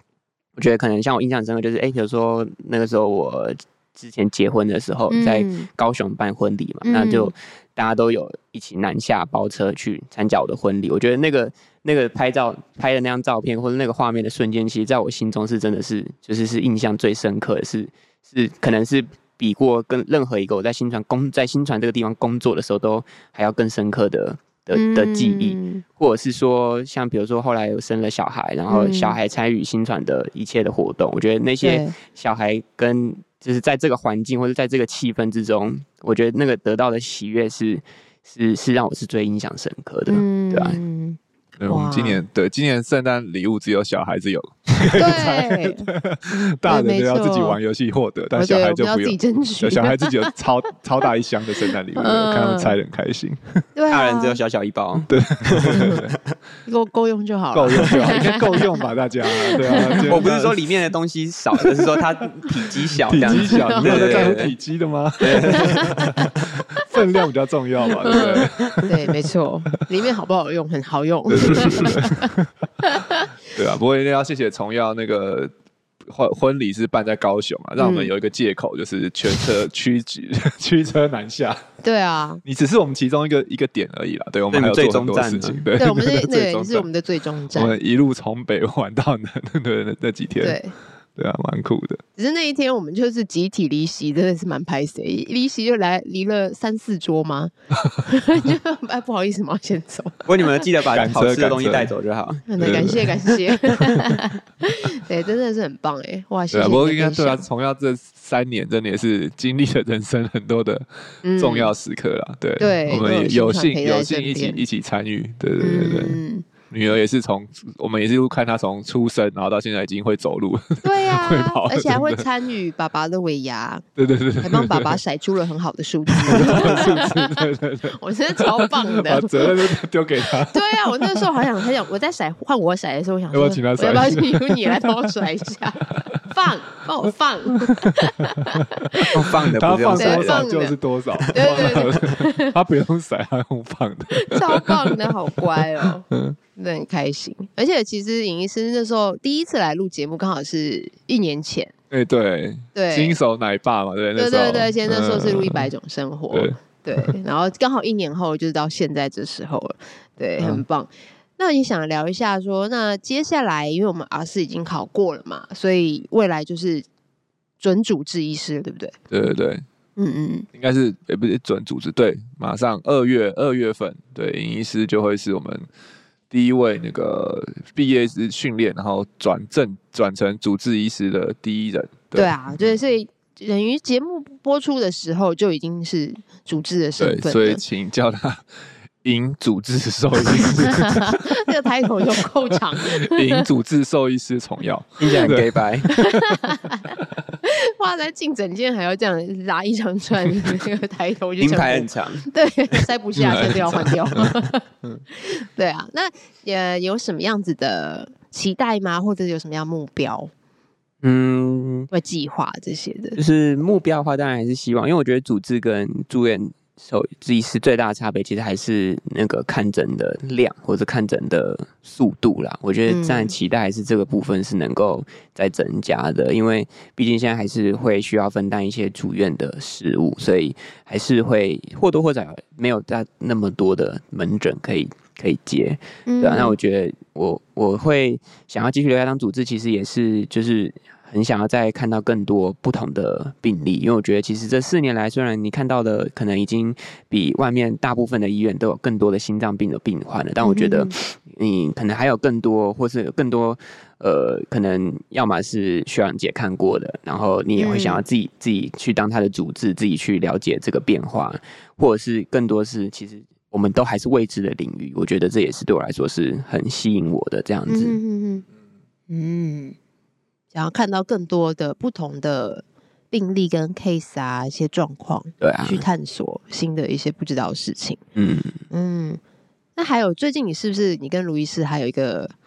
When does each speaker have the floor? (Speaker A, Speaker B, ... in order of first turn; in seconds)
Speaker A: 0.6-40.8, 53.9-56.3, 59.8-64.5, 65.2-66.0, 68.2-68.8, 84.5-85.7, 100.3-102.9, 139.1-140.5, 141.2-141.8, 195.0-195.9, 201.4-202.3, 211.0-211.9, 213.2-268.0, 275.4-275.9, 278.2-278.6
Speaker B: 5.1-5.7, 6.8-7.3, 24.7-25.8, 28.7-29.2, 31.6-31.9, 40.1-42.2, 44.9-47.6, 48.4-50.3, 52.0-52.7, 53.8-54.4, 55.7-56.0, 56.6-60.2, 63.2-64.4, 65.4-66.8, 68.0-73.3, 77.8-78.1, 81.8-82.4, 85.8-87.8, 90.4-90.8, 92.2-100.6, 102.5-107.4, 111.2-111.7, 112.6-114.6, 115.6-116.5, 120.8-123.8, 124.4-129.7, 130.3-139.2, 139.9-140.8, 141.3-142.6, 144.1-151.7, 152.8-153.2, 154.2-166.9, 167.6-168.9, 170.0-170.5, 182.1-187.6, 190.4-193.4, 195.9-210.3, 211.9-213.2, 222.9-223.3, 236.1-236.6, 250.4-250.9, 257.6-258.0, 267.7-268.4, 269.1-269.8, 270.5-278.0, 278.7-279.2, 279.8-282.3
Speaker C: 41.6-53.6, 55.1-56.1, 57.5-60.6, 63.1-69.1, 71.3-72.5, 73.5-75.5, 76.1-81.6, 82.5-86.9, 87.5-90.6, 91.2-92.0, 100.9-101.9, 102.6-103.2, 106.5-122.2, 124.0-125.0, 126.1-131.3, 133.3-135.1, 137.6-138.6, 139.3-146.4, 151.9-155.7, 156.3-157.1, 169.1-169.7, 170.5-175.7, 176.3-182.8, 187.0-188.5, 189.0-191.5, 192.5-196.4, 203.2-205.0